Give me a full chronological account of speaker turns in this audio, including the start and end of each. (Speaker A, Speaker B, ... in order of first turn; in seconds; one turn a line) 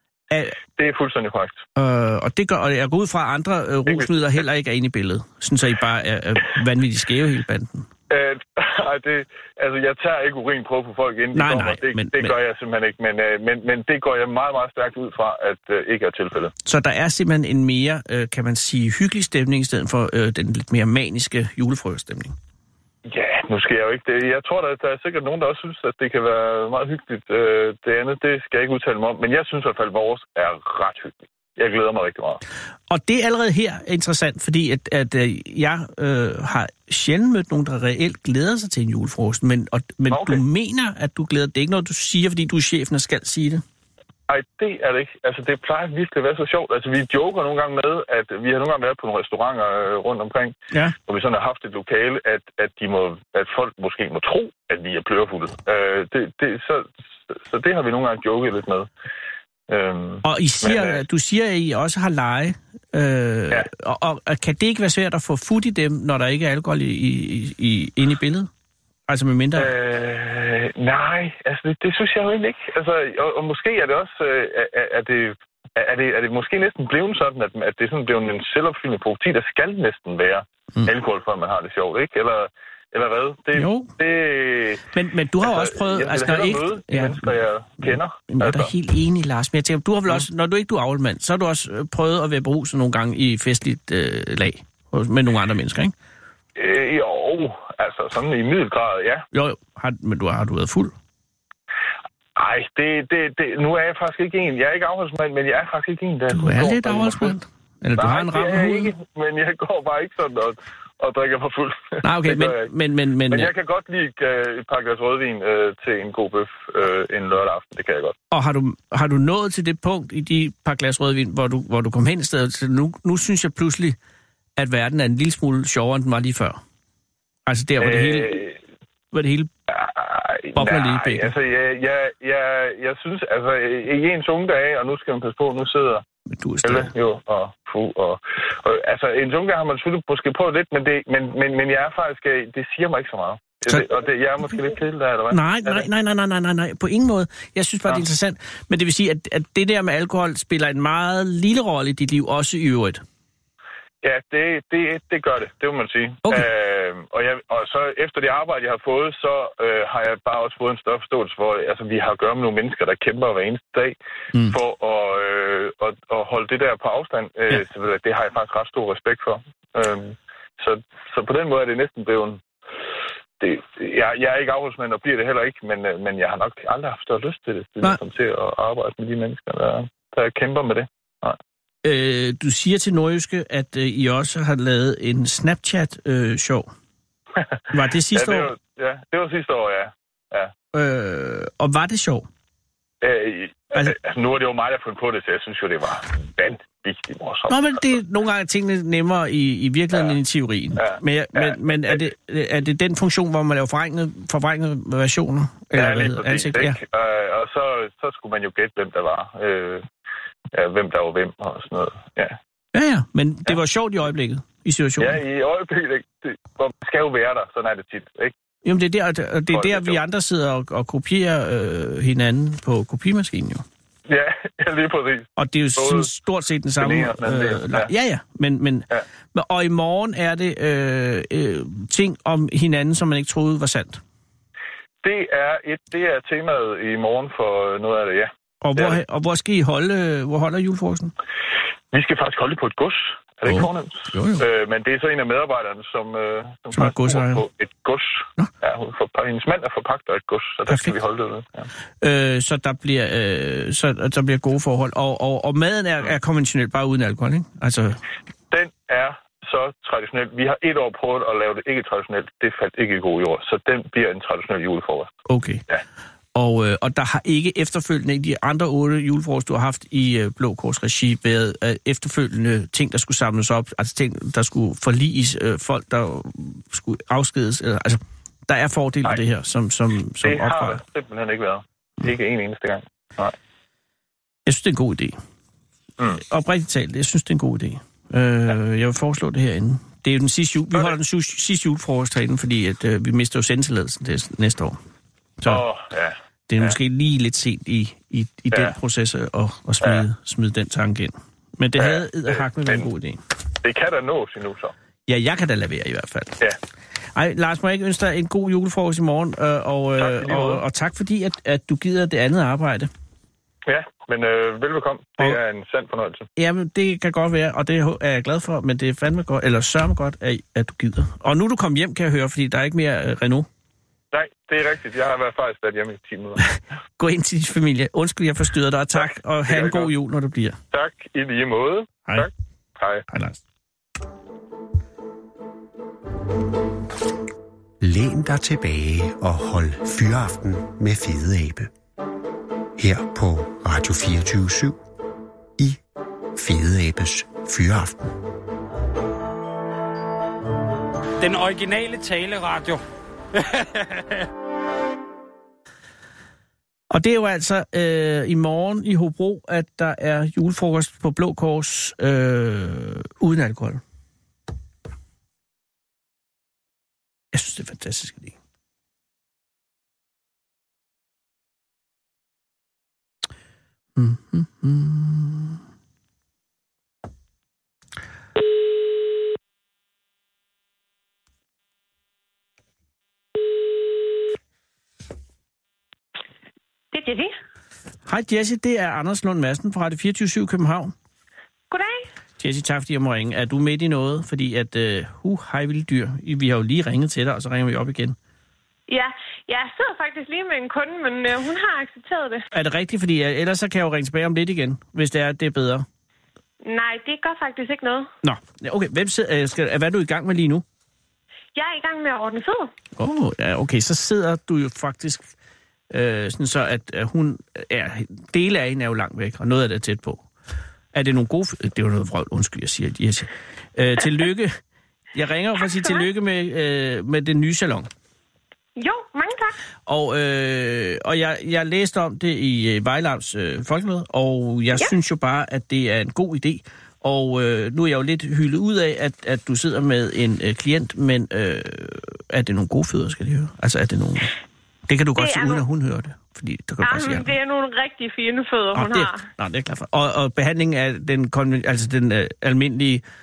Speaker A: 0.3-0.6
Speaker B: 0.8-1.6
Speaker A: 1.8-7.9
Speaker B: 3.9-4.1
Speaker B: 8.1-16.5
Speaker A: 11.3-12.3
Speaker A: 16.6-22.4
Speaker B: 23.1-32.4
Speaker A: 32.9-43.6
Speaker B: 40.1-40.4
Speaker B: 44.3-50.5
Speaker B: 51.1-58.9
Speaker B: 59.7-61.0
Speaker A: 60.2-68.5
Speaker A: 69.1-69.7
Speaker B: 69.6-84.9
Speaker A: 83.5-83.9
Speaker A: 84.9-95.9
Speaker B: 85.4-88.7
Speaker B: 96.5-99.2
Speaker A: 99.3-100.9
Speaker B: 102.3-107.3
Speaker A: 106.3-108.9
Speaker B: 108.0-112.7
Speaker A: 112.0-113.5
Speaker B: 113.3-118.2
Speaker A: 118.3-124.0
Speaker A: 124.6-126.6
Speaker A: 127.5-128.4
Speaker B: 127.8-128.6
Speaker A: 129.1-129.5
Speaker B: 129.7-136.0
Speaker A: 130.5-131.3
Speaker A: 136.3-136.9
Speaker B: 136.6-145.8
Speaker A: 145.3-153.0
Speaker B: 154.0-172.4
Speaker B: 173.4-181.4
Speaker A: 181.8-186.7
Speaker A: 187.7-188.5
Speaker B: 188.1-190.5
Speaker A: 190.7-192.3
Speaker B: 193.0-197.7
Speaker A: 197.5-206.8
Speaker B: 200.8-202.0
Speaker B: 205.7-209.8
Speaker B: 210.5-212.4
Speaker A: 212.7-215.2
Speaker B: 215.0-218.3
Speaker A: 218.6-223.6
Speaker B: 219.5-220.0
Speaker B: 224.1-226.1
Speaker A: 225.4-234.0
Speaker B: 226.8-227.9
Speaker B: 235.0-239.0
Speaker A: 238.6-241.1
Speaker B: 241.9-251.7
Speaker A: 243.4-244.4
Speaker A: 246.7-247.4
Speaker A: 250.7-250.9
Speaker A: 252.0-258.0
Speaker B: 258.5-265.1
Speaker A: 265.3-265.6
Speaker A: 266.3-280.8
Speaker B: 280.2-283.3
Speaker A: 284.4-285.2
Speaker A: 286.1-294.8
Speaker B: 295.4-296.8
Speaker A: 296.5-303.2
Speaker B: 301.8-302.9
Speaker B: 303.6-304.7
Speaker A: 305.1-306.4
Speaker A: 307.1-312.9
Speaker B: 310.0-310.6
Speaker B: 313.7-316.3
Speaker A: 316.4-323.5
Speaker B: 324.1-326.5
Speaker A: 327.0-330.6
Speaker B: 328.9-329.9
Speaker B: 330.7-333.0
Speaker A: 333.1-333.4
Speaker C: 337.8-341.7
Speaker C: 342.8-344.8
Speaker C: 346.4-348.2
Speaker D: 351.2-352.8
Speaker D: 353.3-354.3
Speaker A: 356.9-363.8
Speaker A: 367.3-368.4
Speaker A: 373.9-375.6
Speaker E: 386.9-387.3
Speaker A: 388.1-390.9
Speaker E: 391.7-392.1
Speaker A: 392.4-398.1
Speaker E: 398.9-402.4
Speaker A: 402.5-405.9
Speaker E: 406.6-408.1
Speaker A: 408.2-410.6
Speaker E: 411.6-412.7
Speaker A: 413.0-415.3
Speaker A: 415.9-420.2
Speaker A: 420.9-424.6
Speaker A: 425.1-427.9
Speaker E: 428.8-429.6
Speaker A: 429.9-444.3
Speaker A: 444.9-447.3
Speaker E: 445.2-445.6
Speaker E: 446.8-449.3
Speaker A: 448.7-453.0